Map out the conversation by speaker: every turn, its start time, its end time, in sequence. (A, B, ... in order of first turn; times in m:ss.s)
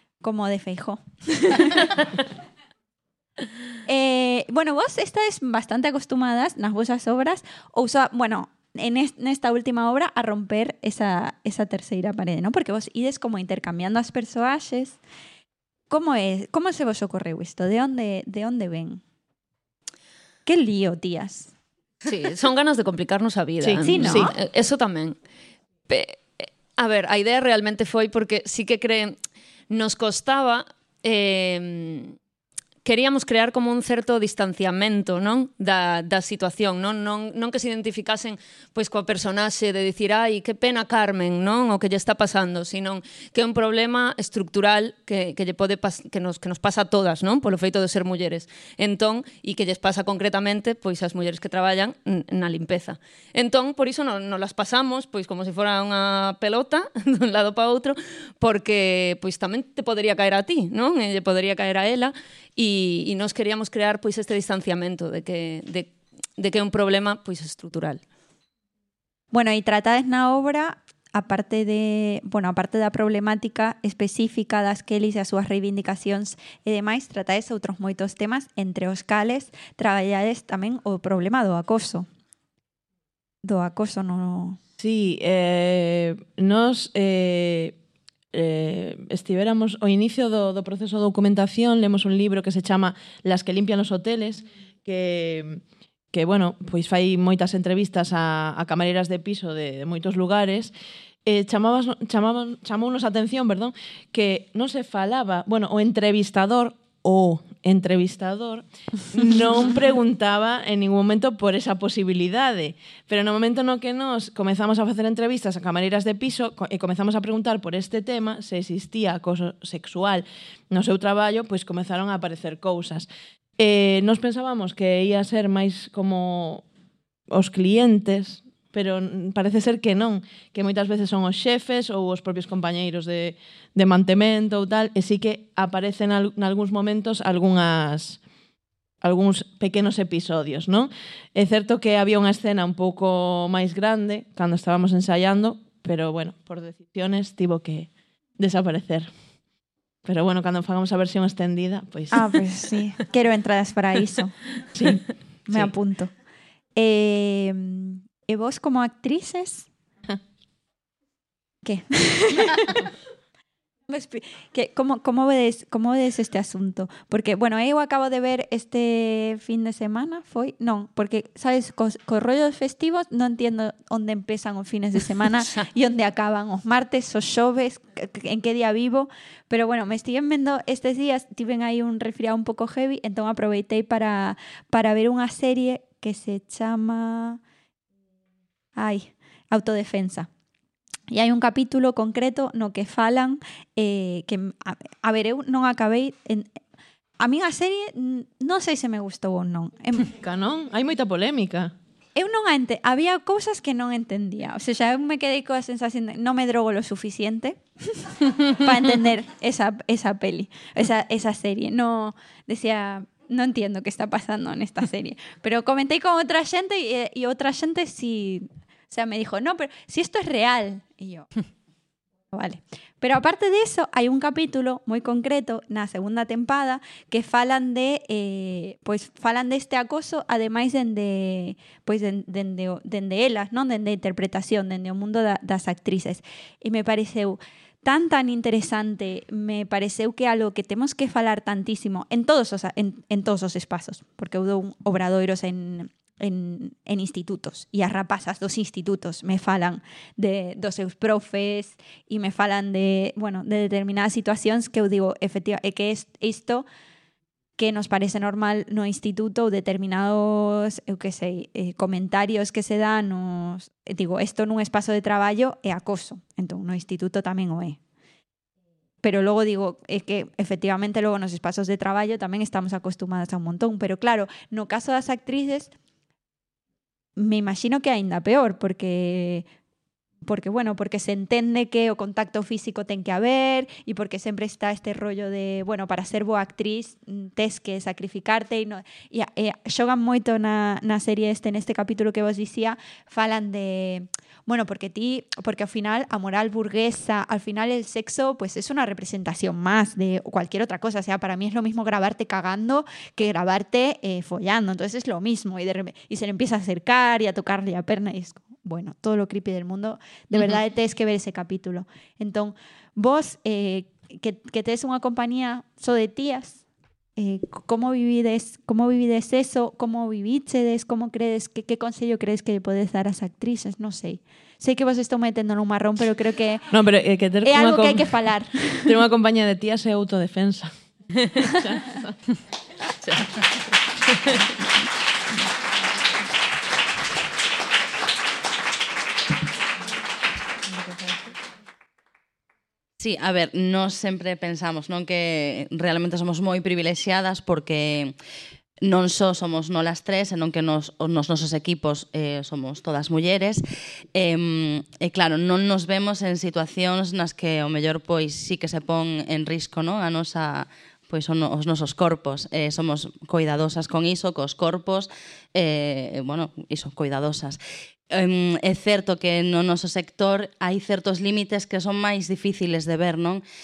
0:00.2-0:02.0 A
0:03.8-0:15.0 A
0:15.9-0:19.0 A
0:20.5-0:21.5 A
0:22.0-0:25.2 B
0:23.6-0:24.3 C
0:23.8-0:24.3 A
0:25.9-0:29.2 B
0:29.7-0:32.2 B
0:32.8-1:08.0 B
1:09.3-1:22.1 A
1:23.4-1:24.6 A
1:24.8-1:27.8 C
1:28.3-1:35.6 C
1:36.1-1:40.7 C
1:41.2-2:06.6 C
2:07.3-2:18.2 C
2:19.0-2:29.1 C
2:30.0-2:32.3 C
2:32.1-2:34.4 A
2:34.7-2:35.7 C
2:35.5-2:36.1 A
2:36.8-2:39.7 A
2:41.6-2:42.8 A
2:43.9-3:07.4 A
3:08.8-3:10.3 A
3:11.1-3:16.5 A
3:17.2-3:20.1 A
3:20.2-3:21.7 C
3:22.2-3:41.3 A
3:42.3-4:16.7 A
4:17.6-4:27.8 A
4:29.0-4:35.7 A
4:37.2-4:39.5 A
4:40.2-5:16.6 A
5:17.2-5:26.7 A
5:26.7-5:28.2 C
5:27.4-5:29.0 A
5:28.8-5:30.7 C
5:31.4-5:32.2 C
5:33.0-5:33.3 D
5:43.0-5:48.1 D
5:48.8-5:53.6 D
5:54.2-6:07.6 D
6:08.1-6:13.4 D